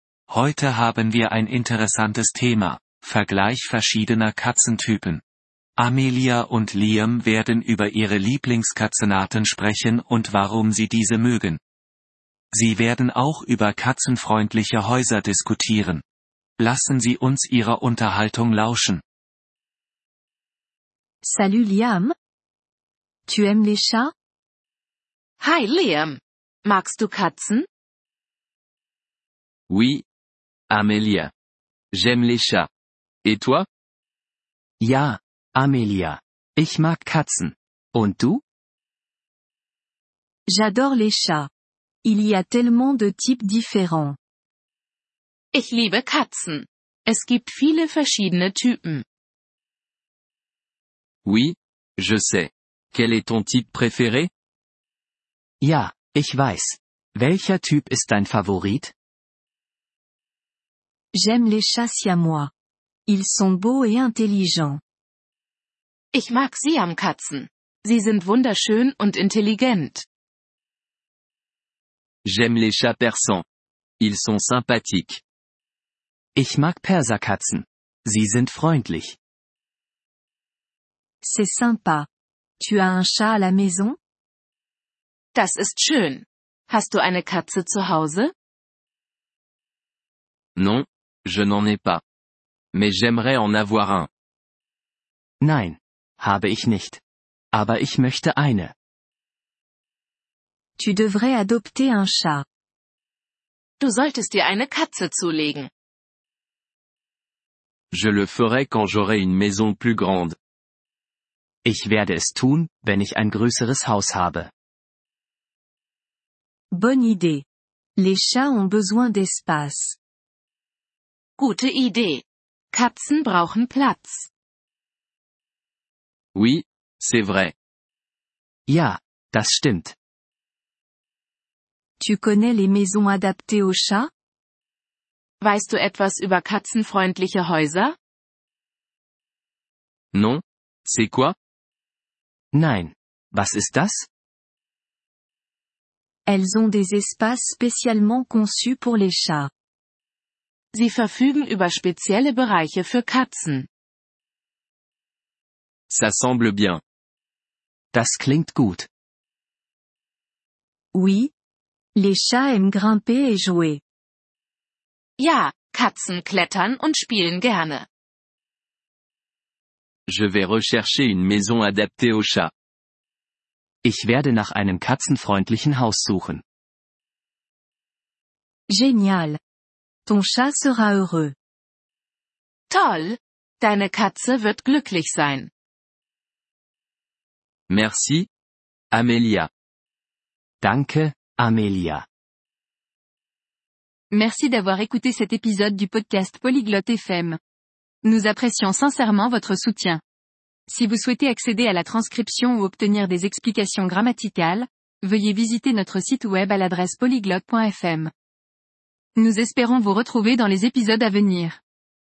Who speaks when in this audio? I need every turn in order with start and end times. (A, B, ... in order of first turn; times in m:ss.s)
0:00.3-0:05.2 A
0:05.8-0:11.6 A
0:12.5-0:16.0 A
0:16.6-0:19.0 A
0:21.2-0:22.1 B
0:23.3-0:24.1 B
0:25.4-0:27.7 C
0:29.7-0:30.0 D
0:30.7-0:31.3 D
0:31.9-0:32.7 D
0:33.2-0:33.7 D
0:34.8-0:38.4 E
0:40.5-0:41.5 B
0:42.0-0:44.2 B
0:45.5-0:49.0 C
0:51.2-0:54.3 D
0:55.6-0:58.9 E
1:01.1-1:02.5 B
1:03.1-1:04.8 B
1:06.1-1:10.0 C
1:12.2-1:13.4 D
1:14.0-1:15.2 D
1:16.3-1:19.2 E
1:21.2-1:22.1 B
1:22.6-1:24.0 B
1:25.3-1:28.3 C
1:30.6-1:32.0 D
1:32.7-1:34.1 D
1:35.4-1:37.0 E
1:37.5-1:38.7 E
1:40.8-1:42.4 B
1:43.8-1:45.7 C
1:47.9-1:50.4 D
1:51.6-1:54.5 E
1:56.7-1:57.4 B
1:58.0-2:00.0 B
2:01.4-2:04.3 C
2:06.3-2:07.5 D
2:08.7-2:10.0 E
2:12.0-2:14.1 B
2:15.4-2:18.0 C
2:20.1-2:21.3 D
2:22.5-2:24.1 E
2:26.3-2:29.5 B
2:30.7-2:33.7 C
2:35.9-2:36.8 D
2:37.9-2:38.9 E
2:40.9-2:41.3 B
2:41.9-2:43.8 B
2:45.2-2:47.9 C
2:50.1-2:52.5 D
2:53.8-2:56.4 E
2:58.7-2:59.4 B
3:00.0-3:01.3 B
3:02.7-3:05.5 C
3:07.7-3:08.3 D
3:08.9-3:09.5 D
3:10.6-3:12.0 E
3:14.1-3:17.4 F
3:18.0-3:20.0 F
3:20.7-3:28.1 F
3:29.2-3:31.6 F